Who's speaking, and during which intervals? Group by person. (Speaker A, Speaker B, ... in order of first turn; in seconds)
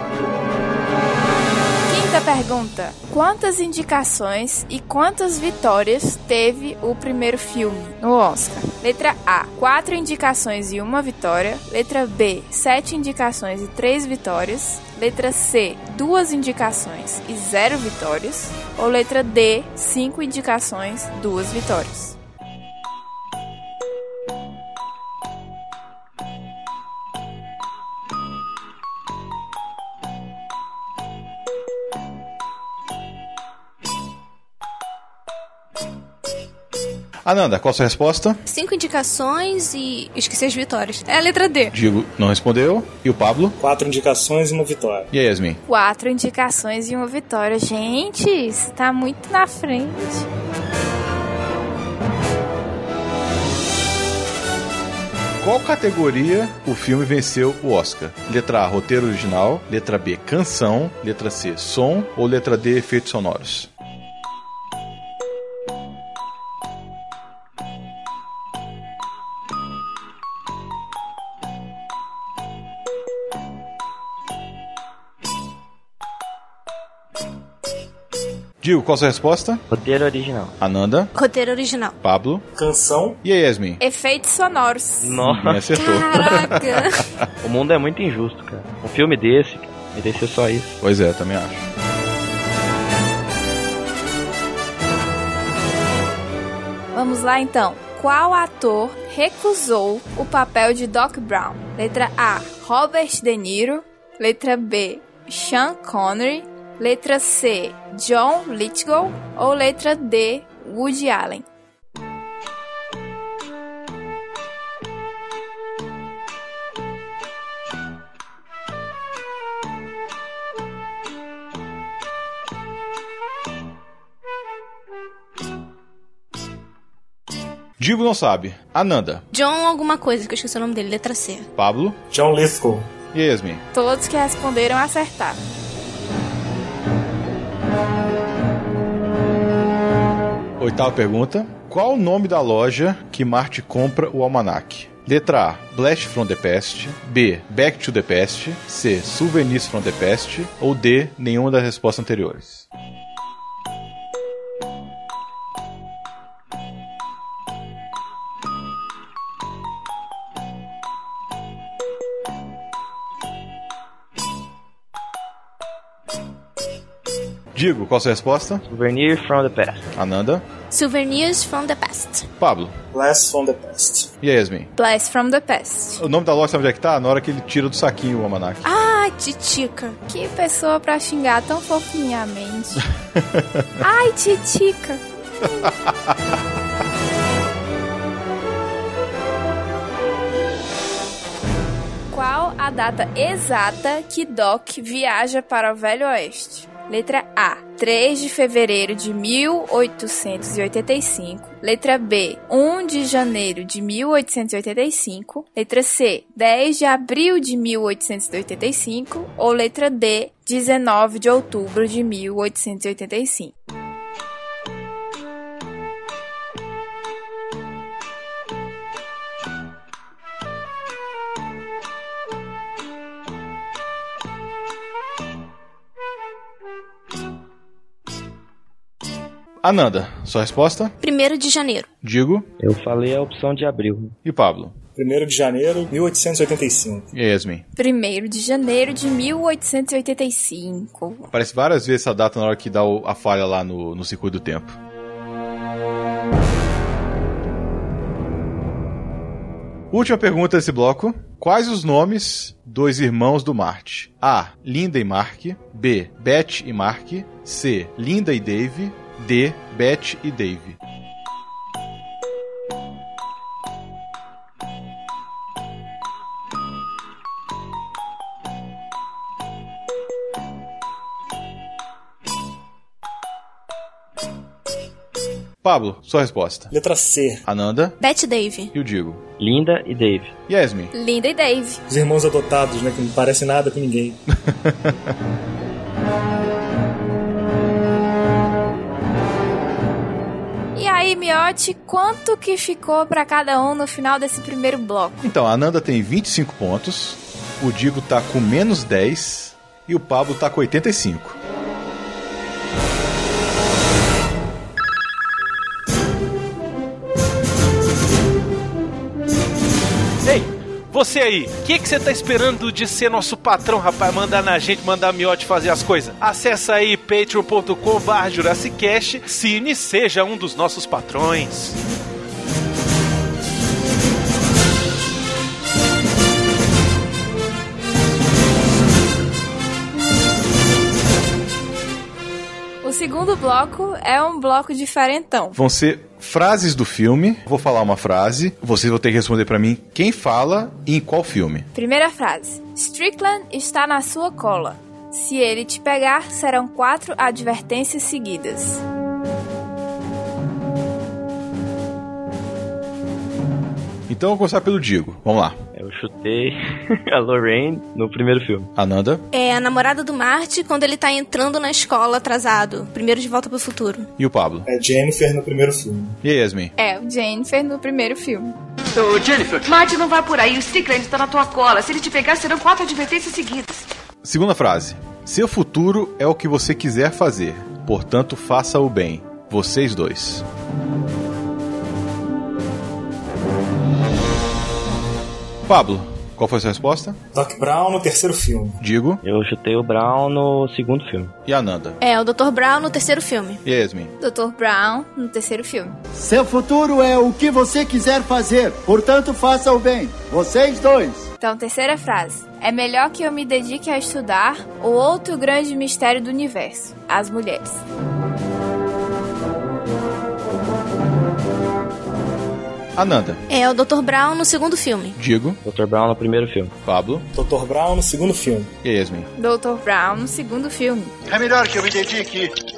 Speaker A: 1.9-22.2, 45.7-50.3, 83.8-85.1, 96.9-111.5, 133.7-135.4, 174.8-176.0, 180.1-182.9, 183.8-185.0, 192.1-213.5, 237.8-241.3, 280.9-281.8, 290.8-295.3, 332.8-335.6, 341.8-348.8, 366.8-368.6, 394.2-396.0, 401.4-407.8, 419.4-421.1
Speaker B: 37.2-38.4, 41.7-43.6, 45.1-45.6, 55.4-63.7, 78.6-79.6, 80.6-81.1, 82.0-82.5, 83.2-83.8, 85.2-87.3, 90.8-91.7, 127.8-129.2, 131.6-132.0, 133.1-133.6, 140.6-152.7, 167.5-168.6, 169.9-170.4, 172.4-172.8, 174.2-174.7, 176.0-178.6, 183.2-183.7, 229.6-230.9, 232.0-232.5, 234.2-234.8, 237.1-237.6, 241.3-244.8, 249.9-260.8, 275.6-276.7, 277.4-278.0, 278.7-279.2, 280.5-280.9, 284.5-284.9, 295.2-301.4, 335.6-341.7, 354.1-355.6, 358.8-359.2, 364.2-364.7, 366.2-366.7, 374.2-380.4, 385.7-387.2, 388.8-389.2, 391.5-392.0, 393.6-394.1, 413.0-413.4, 415.2-415.6, 416.9-417.3, 418.8-419.3
Speaker C: 38.5-41.7, 81.2-82.0, 85.7-87.0, 129.3-131.5, 170.7-172.3, 178.7-180.0, 231.0-231.9, 278.0-278.7, 359.3-364.1, 392.0-393.6, 413.5-415.2
Speaker D: 43.6-45.1, 82.5-83.2, 132.1-132.9, 172.9-174.1, 235.0-237.1, 276.7-277.4, 281.9-284.2, 364.6-366.2, 387.3-388.8, 417.3-418.7
Speaker E: 79.7-80.5, 85.0-85.7, 87.4-90.8, 168.7-169.8, 232.6-234.2, 279.4-280.3, 355.8-358.7, 389.2-391.3, 415.6-416.8
Speaker F: 310.2-321.8
Speaker G: 368.9-373.9
Speaker H: 396.1-401.3, 421.3-422.5